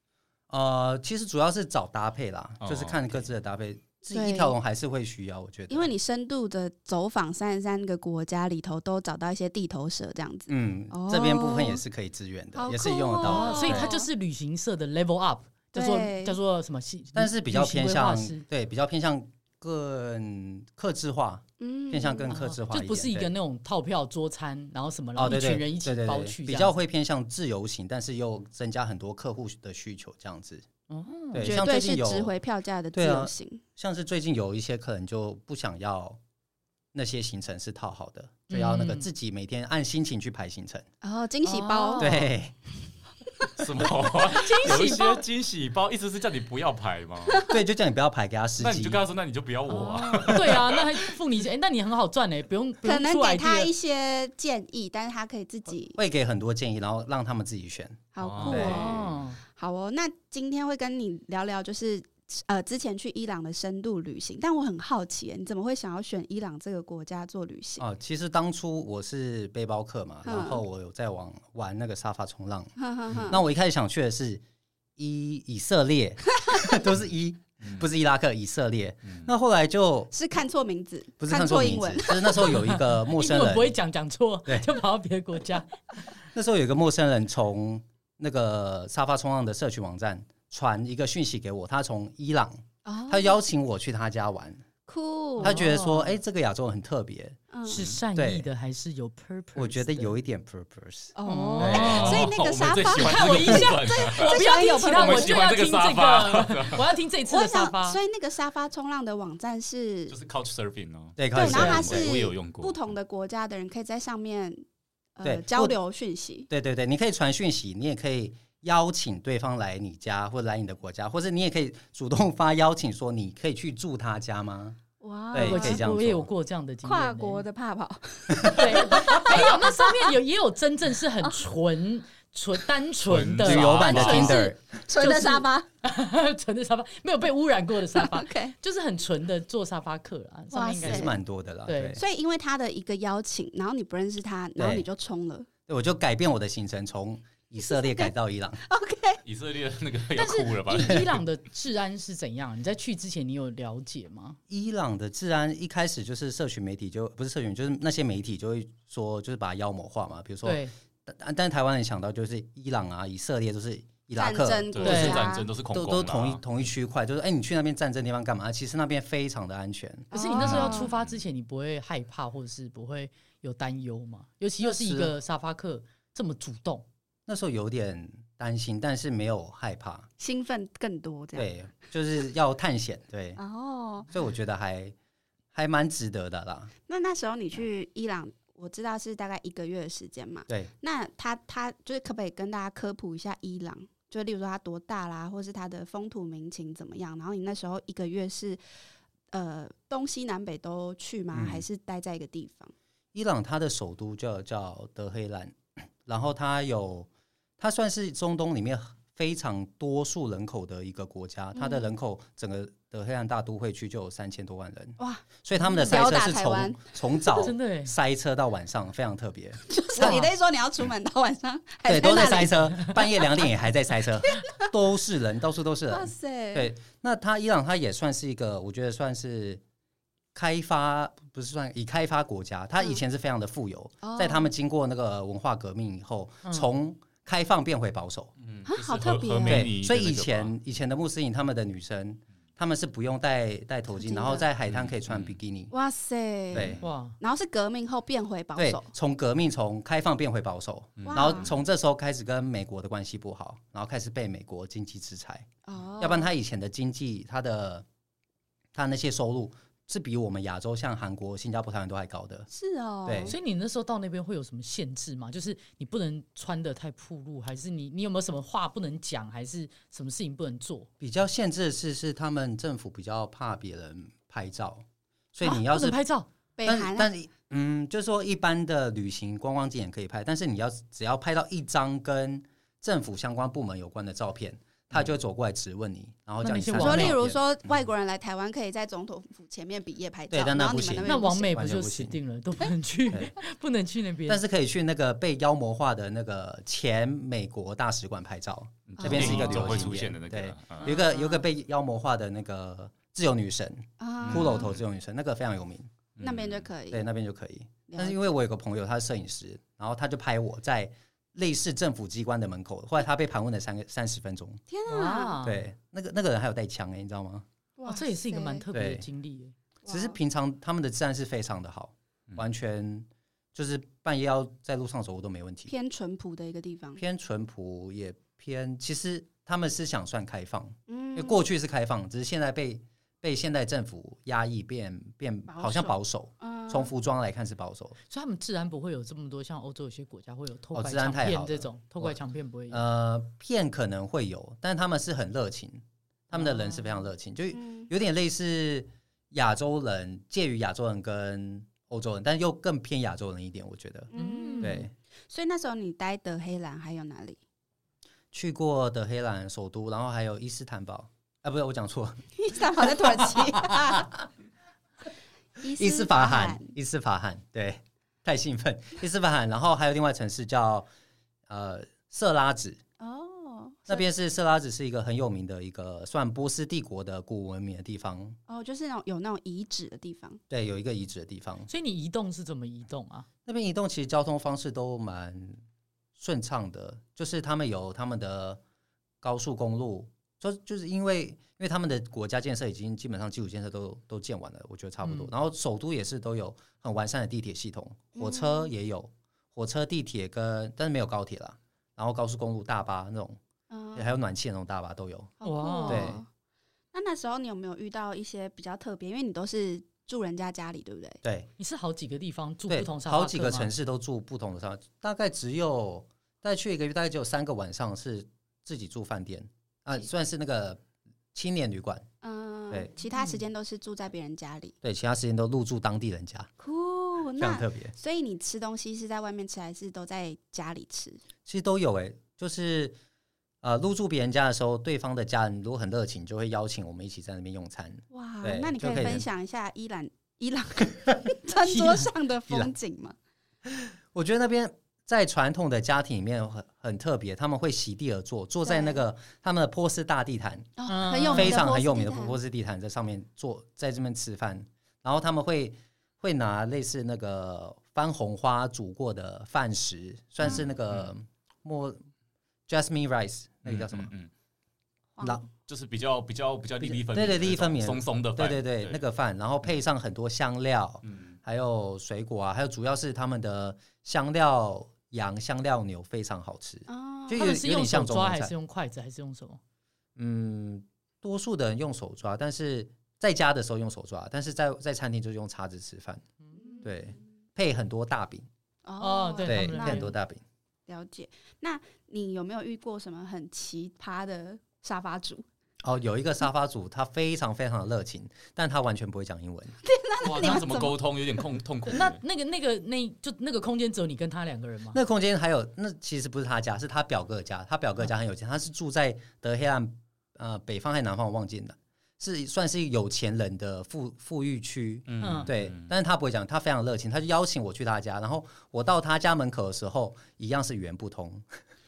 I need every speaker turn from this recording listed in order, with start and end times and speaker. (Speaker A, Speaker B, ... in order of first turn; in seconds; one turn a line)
Speaker A: 0.5-5.9
Speaker B: 2.6-3.2
Speaker C: 4.1-4.5
Speaker C: 5.7-11.8
Speaker A: 10.5-14.0
Speaker C: 12.6-14.1
Speaker D: 13.2-18.4
Speaker C: 15.7-16.4
Speaker A: 17.1-23.3
Speaker C: 21.6-22.3
Speaker D: 22.3-26.7
Speaker A: 25.2-30.6
Speaker D: 30.9-31.5
Speaker A: 31.3-32.3
Speaker C: 31.4-33.6
Speaker A: 32.9-36.2
Speaker A: 36.9-40.9
Speaker D: 38.5-39.1
Speaker C: 41.0-42.1
Speaker D: 41.4-42.3
Speaker A: 42.0-42.6
Speaker B: 43.6-47.5
Speaker D: 44.3-45.2
Speaker A: 47.5-49.0
Speaker B: 48.6-51.1
Speaker D: 49.7-53.7
Speaker C: 52.8-56.0
Speaker A: 56.0-58.9
Speaker C: 58.1-67.8
Speaker B: 58.2-59.1
Speaker D: 58.5-59.4
Speaker A: 67.8-72.7
Speaker C: 70.2-70.6
Speaker C: 72.8-73.4
Speaker A: 73.2-74.4
Speaker A: 75.0-80.1
Speaker B: 77.6-77.9
Speaker C: 80.1-82.7
Speaker A: 81.2-83.7
Speaker D: 82.5-85.7
Speaker A: 86.3-94.7
Speaker C: 92.8-93.3
Speaker C: 94.9-95.6
Speaker D: 95.4-96.2
Speaker A: 95.4-97.4
Speaker C: 97.5-97.8
Speaker D: 97.7-100.2
Speaker B: 97.7-98.0
Speaker A: 98.2-98.5
Speaker A: 99.6-102.2
Speaker C: 101.2-105.3
Speaker D: 101.2-102.3
Speaker B: 101.6-106.9
Speaker D: 103.0-108.0
Speaker C: 107.3-110.2
Speaker B: 110.1-112.9
Speaker A: 111.2-112.1
Speaker C: 111.3-114.6
Speaker D: 111.4-111.8
Speaker C: 115.2-116.5
Speaker A: 115.2-115.8
Speaker A: 116.5-124.8
Speaker C: 125.0-125.8
Speaker A: 125.3-126.3
Speaker D: 125.3-127.5
Speaker C: 126.8-130.1
Speaker D: 128.4-142.0
Speaker B: 133.0-134.3
Speaker A: 133.4-134.6
Speaker C: 133.8-135.7
Speaker C: 137.9-138.6
Speaker C: 140.5-141.2
Speaker A: 140.8-142.0
Speaker C: 141.9-145.5
Speaker A: 144.6-144.9
Speaker A: 145.7-148.6
Speaker C: 147.9-149.2
Speaker B: 149.2-151.2
Speaker D: 150.2-154.4
Speaker A: 154.5-170.8
Speaker D: 160.4-160.7
Speaker C: 164.2-165.5
Speaker B: 164.7-166.4
Speaker D: 164.8-165.2
Speaker C: 170.1-170.9
Speaker D: 170.1-176.9
Speaker B: 170.8-171.1
Speaker A: 174.6-175.2
Speaker A: 177.3-180.1
Speaker C: 180.2-181.5
Speaker A: 181.3-183.4
Speaker C: 183.4-184.1
Speaker A: 184.1-184.9
Speaker A: 185.5-186.7
Speaker C: 186.9-198.6
Speaker C: 199.3-202.7
Speaker A: 201.3-201.7
Speaker A: 203.1-207.1
Speaker A: 207.6-220.3
Speaker C: 211.6-211.9
Speaker C: 215.0-217.5
Speaker D: 217.4-217.9
Speaker C: 219.7-223.4
Speaker A: 221.9-229.6
Speaker C: 225.9-226.7
Speaker A: 230.3-238.3
Speaker C: 234.0-234.5
Speaker B: 238.4-240.5
Speaker C: 238.7-239.7
Speaker A: 239.4-245.7
Speaker C: 244.0-244.5
Speaker B: 244.7-245.4
Speaker C: 245.7-248.9
Speaker A: 246.5-246.8
Speaker D: 246.8-247.2
Speaker A: 248.6-255.5
Speaker B: 251.0-251.6
Speaker C: 251.1-251.5
Speaker C: 255.7-256.3
Speaker A: 256.0-257.9
Speaker A: 258.8-262.5
Speaker C: 262.5-263.4
Speaker A: 263.1-263.4
Speaker D: 263.2-270.9
Speaker A: 271.0-276.0
Speaker D: 275.4-276.3
Speaker C: 276.6-277.1
Speaker A: 276.6-287.4
Speaker D: 286.4-287.2
Speaker C: 286.8-291.5
Speaker A: 290.3-292.2
Speaker D: 291.1-294.4
Speaker A: 294.3-305.9
Speaker B: 298.9-300.9
Speaker C: 299.0-299.9
Speaker C: 300.8-301.5
Speaker C: 304.0-304.7
Speaker B: 304.2-304.8
Speaker B: 306.2-306.7
Speaker C: 306.2-307.0
Speaker A: 306.9-314.6
Speaker C: 307.9-308.2
Speaker C: 314.7-315.4
Speaker D: 314.9-315.6
Speaker A: 315.4-317.4
Speaker C: 317.8-318.6
Speaker D: 317.9-319.6
Speaker A: 318.7-319.1
Speaker C: 319.9-320.2
Speaker A: 319.9-325.7
Speaker C: 325.7-327.0
Speaker A: 327.0-338.0
Speaker C: 330.9-331.4
Speaker C: 335.5-336.9
Speaker D: 338.1-342.8
Speaker A: 340.7-342.2
Speaker A: 342.7-354.9
Speaker D: 346.3-346.9
Speaker C: 347.5-347.9
Speaker C: 354.1-357.4
Speaker D: 354.1-354.9
Speaker A: 358.3-362.2
Speaker C: 362.4-364.1
Speaker A: 362.8-364.2
Speaker C: 365.6-366.7
Speaker A: 365.8-370.9
Speaker A: 371.5-372.8
Speaker C: 373.0-374.0
Speaker A: 373.9-378.4
Speaker C: 378.5-380.4
Speaker A: 380.5-381.7
Speaker D: 381.7-383.3
Speaker A: 383.5-385.6
Speaker A: 386.2-388.6
Speaker A: 389.2-403.4
Speaker D: 395.0-395.3
Speaker C: 398.2-398.7
Speaker C: 403.7-404.1
Speaker A: 403.9-405.3
Speaker C: 405.4-406.3
Speaker D: 405.4-406.2
Speaker A: 405.9-406.2
Speaker C: 406.9-411.2
Speaker A: 411.2-411.5
Speaker D: 411.6-413.7
Speaker A: 412.7-420.8
Speaker A: 421.3-422.1
Speaker C: 422.2-424.8
Speaker A: 424.8-426.5
Speaker C: 426.6-431.2
Speaker A: 427.4-427.9
Speaker A: 431.5-433.0
Speaker A: 433.6-439.3
Speaker C: 438.1-443.2
Speaker D: 441.6-442.1
Speaker A: 443.7-450.7
Speaker C: 448.7-449.0
Speaker C: 450.8-452.4
Speaker D: 450.9-451.6
Speaker A: 451.3-462.0
Speaker A: 462.7-464.1
Speaker B: 463.7-464.3
Speaker C: 465.2-465.5
Speaker B: 465.7-469.0
Speaker A: 466.8-478.5
Speaker B: 471.1-471.4
Speaker C: 476.9-477.5
Speaker D: 477.4-479.6
Speaker A: 480.2-486.2
Speaker C: 486.6-487.2
Speaker A: 486.8-488.5
Speaker C: 488.9-490.1
Speaker D: 489.0-490.1
Speaker A: 489.4-490.4
Speaker C: 490.9-495.4
Speaker A: 495.8-499.8
Speaker C: 499.8-501.0
Speaker B: 500.2-502.2
Speaker D: 501.9-505.0
Speaker A: 504.9-521.5
Speaker B: 515.1-515.9
Speaker D: 515.2-515.5